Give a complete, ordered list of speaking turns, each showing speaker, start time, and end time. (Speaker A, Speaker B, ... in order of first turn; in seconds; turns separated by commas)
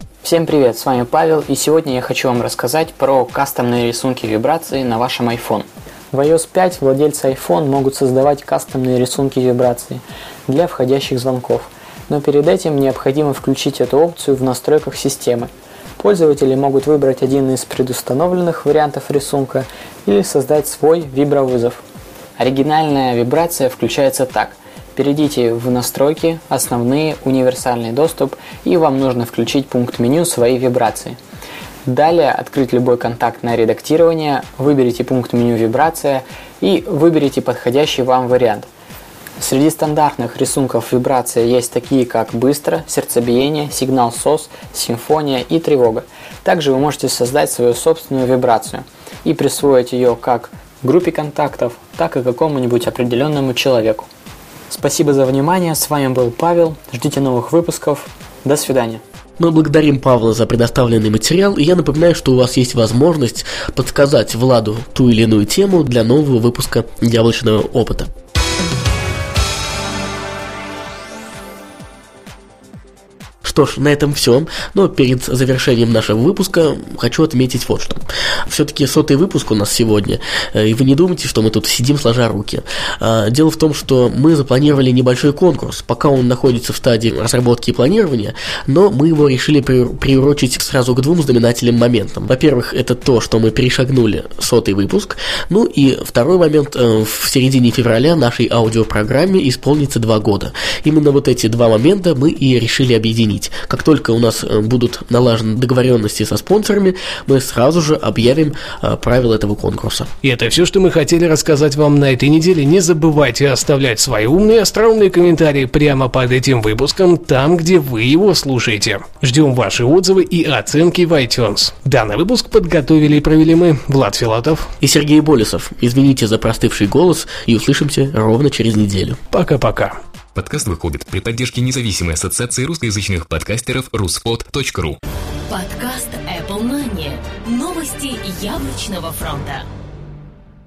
Speaker A: 0.2-21.8, Speaker A: 22.4-31.2, Speaker A: 31.9-38.7, Speaker A: 39.4-54.1, Speaker A: 54.7-59.0, Speaker B: 59.4-68.1, Speaker B: 73.4-110.1, Speaker C: 110.2-124.7, Speaker B: 124.8-129.2, Speaker C: 129.3-130.0, Speaker D: 130.3-135.0, Speaker E: 135.5-139.7